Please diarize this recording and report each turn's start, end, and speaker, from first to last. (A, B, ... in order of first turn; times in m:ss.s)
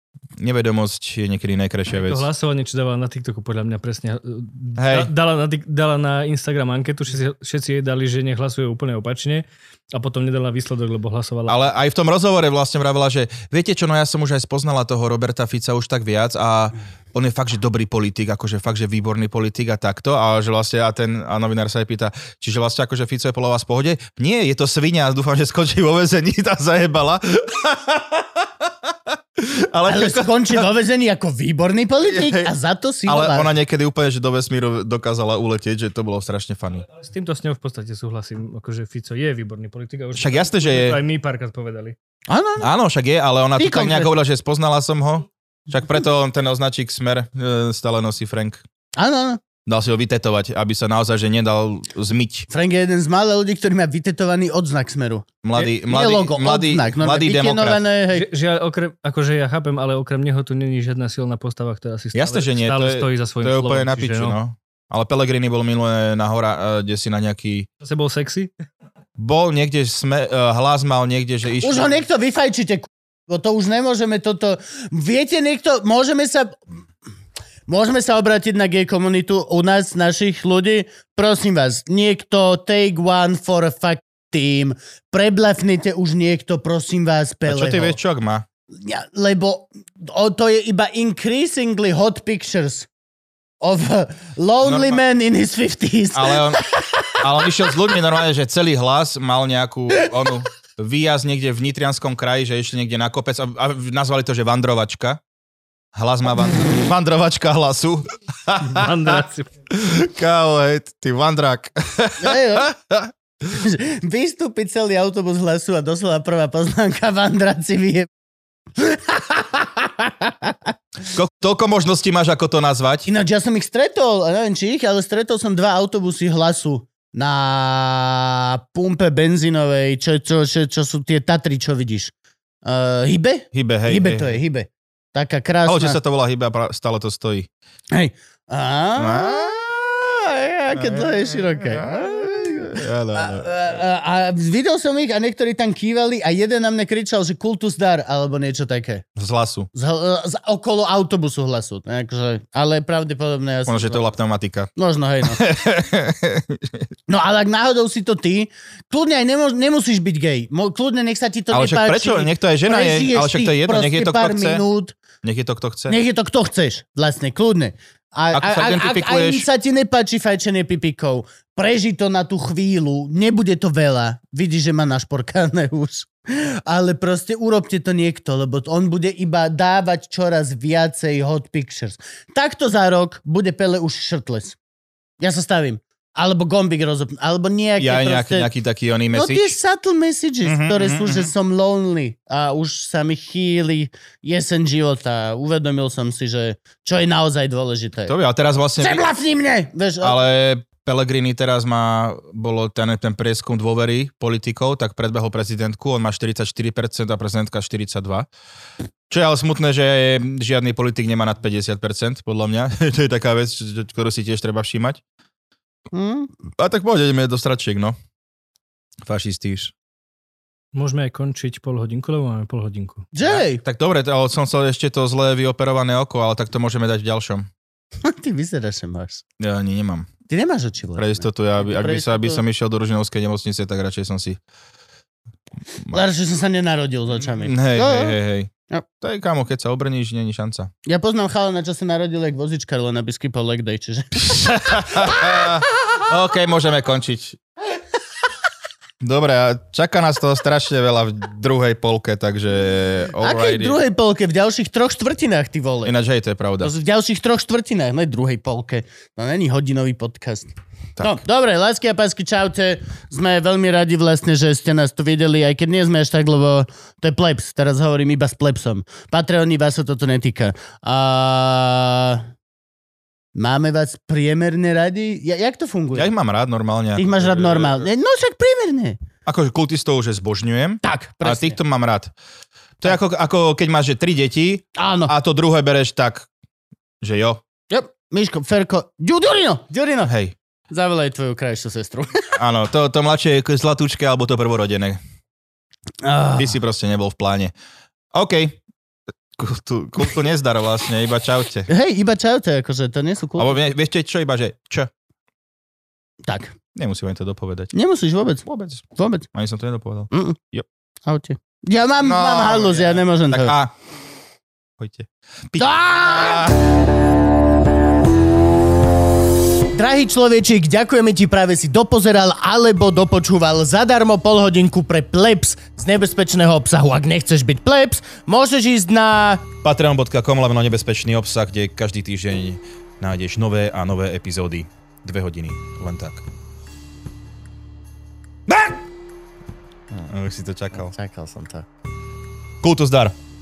0:00.4-0:02.3 A
0:01.9-0:11.6 B
0:04.8-0:05.1 A
0:11.5-0:30.7 A
0:29.9-0:33.5 C
0:32.1-0:32.5 A
0:33.1-0:36.9 A
0:36.9-0:42.0 B
0:40.2-0:41.0 A
0:42.3-0:42.7 C
0:42.6-0:48.6 A
0:43.6-0:44.2 C
0:49.0-0:49.4 C
0:49.7-0:52.5 A
0:52.5-0:58.3 C
0:55.4-0:57.8 A
0:58.1-1:04.4 B
1:02.1-1:07.7 A
1:07.8-1:08.5 B
1:09.2-1:11.9 A
1:11.6-1:16.6 C
1:17.7-1:28.0 C
1:27.5-1:28.5 A
1:28.8-1:32.9 C
1:33.6-1:36.9 C
1:34.6-1:35.0 A
1:36.1-1:36.6 A
1:37.2-1:45.2 A
1:46.0-1:53.1 A
1:48.7-1:49.5 B
1:52.2-1:52.7 C
1:53.5-1:58.1 C
1:58.8-2:00.7 C
2:01.1-2:03.1 A
2:03.1-2:12.1 C
2:12.6-2:16.0 C
2:13.5-2:14.4 A
2:15.7-2:17.5 A
2:17.9-2:29.0 C
2:19.0-2:19.6 A
2:20.7-2:23.6 A
2:29.2-2:29.7 A
2:29.7-2:34.1 C
2:33.7-2:36.9 A
2:34.8-2:35.4 C
2:37.1-2:45.0 C
2:41.5-2:44.6 A
2:45.2-2:46.0 A
2:45.9-3:04.6 C
2:48.3-2:49.5 A
3:05.2-3:08.5 C
3:07.8-3:09.5 A
3:09.1-3:18.1 C
3:10.4-3:11.3 A
3:18.1-3:19.0 A
3:18.8-3:20.2 C
3:20.0-3:28.3 A
3:29.1-3:35.0 A
3:35.9-3:36.3 C
3:36.6-3:38.0 A
3:39.0-3:39.7 A
3:40.7-3:43.1 B
3:43.1-3:43.6 C
3:43.2-3:47.5 A
3:48.0-3:49.2 C
3:49.4-3:50.1 A
3:50.3-3:52.4 C
3:51.0-3:54.4 A
3:55.9-3:58.2 C
3:57.2-4:00.7 A
4:00.9-4:05.6 C
4:04.2-4:07.4 A
4:09.0-4:13.8 A
4:13.2-4:15.9 C
4:15.8-4:16.7 A
4:16.6-4:32.3 C
4:33.4-4:36.1 C
4:35.9-4:37.9 A
4:37.0-4:39.0 C
4:39.3-4:42.1 A
4:40.8-4:41.6 C
4:42.8-4:46.3 A
4:44.8-4:45.1 C
4:47.0-4:47.4 A
4:47.7-4:50.1 C
4:50.0-4:50.4 A
4:50.7-4:52.4 C
4:52.4-4:55.0 A
4:56.0-4:56.6 C
4:56.4-4:57.5 A
4:58.1-4:58.6 A
4:59.4-5:01.7 A
5:01.7-5:03.6 C
5:03.4-5:04.9 A
5:06.2-5:06.6 C
5:06.8-5:07.7 A
5:07.7-5:08.4 C
5:08.4-5:10.7 A
5:09.0-5:09.3 C
5:10.1-5:10.4 C
5:11.1-5:13.6 C
5:12.0-5:13.7 A
5:14.8-5:16.6 A
5:15.6-5:16.5 C
5:19.7-5:29.4 C
5:29.6-5:36.2 A
5:38.5-5:38.8 A
5:40.0-5:40.9 A
5:40.7-5:41.7 C
5:42.6-5:43.2 A